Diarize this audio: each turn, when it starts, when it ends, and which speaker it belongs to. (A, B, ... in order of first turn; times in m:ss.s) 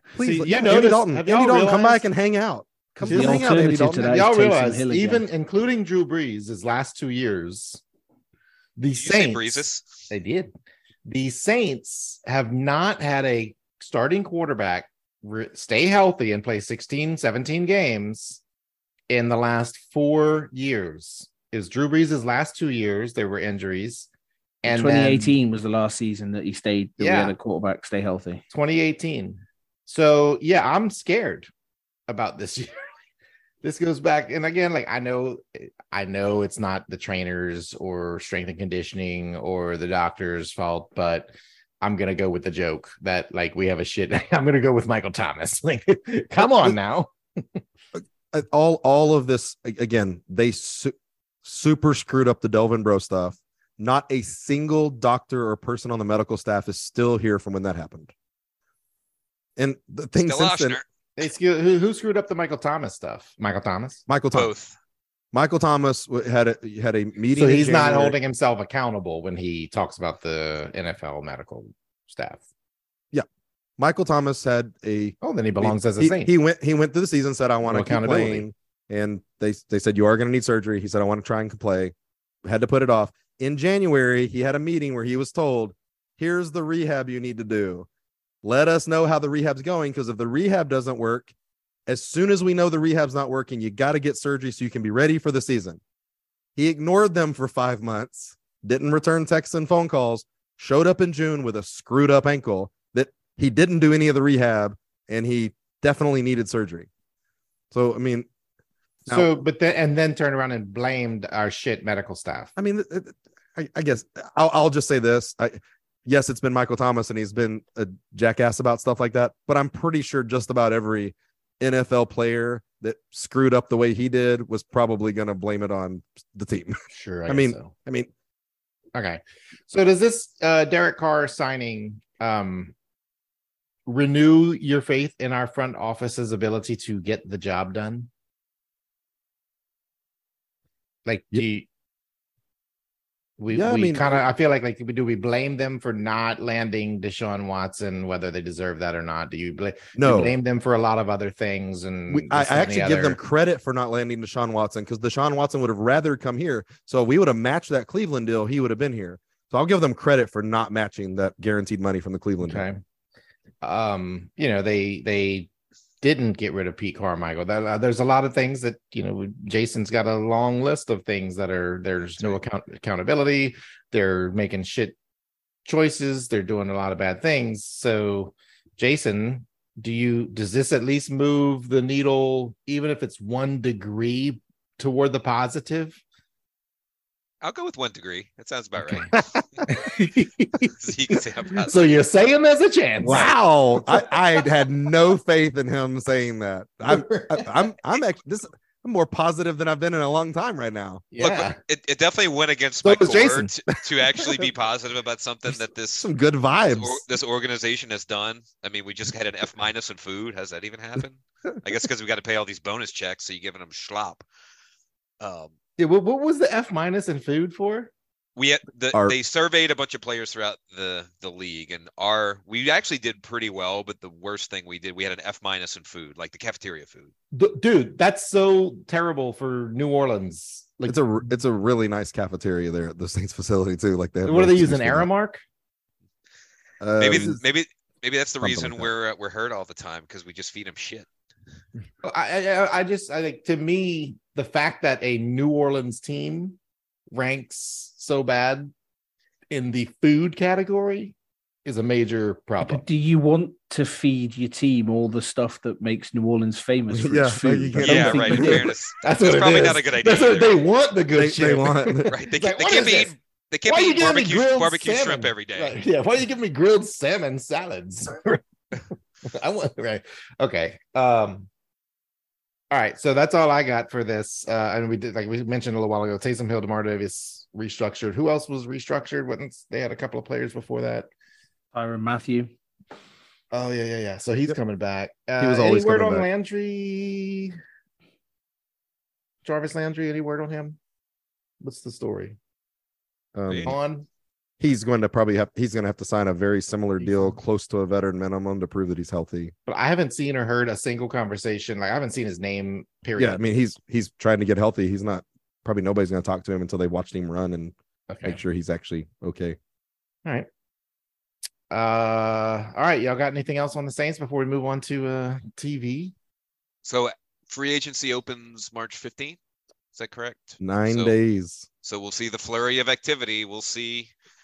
0:00.1-0:04.1 A
0:00.2-0:02.0 B
0:03.0-0:07.8 B
0:03.1-0:05.2 C
0:08.8-0:10.5 B
0:08.9-0:10.1 D
0:11.0-0:18.4 B
0:19.1-0:24.1 B
0:24.6-0:25.3 B
0:24.6-0:28.4 C
0:27.0-0:27.4 B
0:28.5-0:31.5 B
0:32.1-0:32.8 B
0:33.6-0:47.6 B
0:46.4-0:46.8 A
0:47.9-0:58.1 A
0:59.6-1:00.8 A
1:00.2-1:00.8 D
1:01.2-1:04.0 B
1:04.1-1:04.5 A
1:04.3-1:04.7 D
1:05.3-1:08.2 A
1:07.3-1:12.4 B
1:13.8-1:27.9 A
1:15.2-1:16.3 B
1:17.6-1:18.4 B
1:28.4-1:31.3 A
1:31.9-1:35.8 A
1:36.6-1:46.9 A
1:47.7-1:48.3 A
1:49.0-1:52.5 B
1:49.1-1:49.4 A
1:52.6-2:08.1 A
2:06.9-2:07.7 B
2:08.9-2:12.7 B
2:13.8-2:18.1 B
2:21.0-2:21.7 B
2:23.4-2:33.2 B
2:23.5-2:24.2 A
2:30.0-2:30.3 A
2:32.1-2:42.6 A
2:42.4-2:42.8 B
2:43.6-2:45.5 B
2:46.0-2:55.0 B
2:55.6-3:06.0 B
3:07.4-3:09.6 D
3:08.8-3:13.3 B
3:10.6-3:11.9 D
3:13.0-3:21.0 A
3:13.8-3:14.1 B
3:16.9-3:17.5 B
3:21.1-3:21.6 B
3:21.2-3:26.1 D
3:22.8-3:23.5 B
3:24.2-3:24.4 A
3:25.4-3:27.0 A
3:26.7-3:34.2 D
3:35.2-3:35.5 D
3:35.8-3:37.9 B
3:38.4-3:47.1 D
3:47.3-3:51.0 B
3:50.9-3:55.1 A
3:54.2-3:55.4 B
3:56.8-3:57.4 A
3:57.0-4:01.1 D
3:58.4-3:58.9 A
4:02.0-4:06.6 B
4:07.1-4:08.7 B
4:09.5-4:12.8 B
4:12.6-4:18.5 C
4:16.9-4:18.7 A
4:17.8-4:20.7 D
4:18.0-4:23.1 B
4:21.1-4:22.1 A
4:22.1-4:25.8 D
4:23.6-4:28.4 B
4:29.2-4:31.5 B
4:32.7-4:41.1 B
4:41.7-4:42.5 C
4:43.5-4:47.5 B
4:45.4-4:46.3 A
4:49.4-4:50.8 B
4:51.6-4:52.4 B
4:53.3-4:53.8 A
4:53.5-4:53.7 D
4:53.6-4:54.0 B
4:54.6-4:59.5 A
4:57.0-4:57.3 B
4:59.6-5:03.4 B
5:03.2-5:09.6 A
5:08.1-5:08.4 B
5:11.7-5:16.1 B
5:16.8-5:19.4 D
5:19.9-5:21.2 D
5:20.6-5:21.7 A
5:21.8-5:24.1 D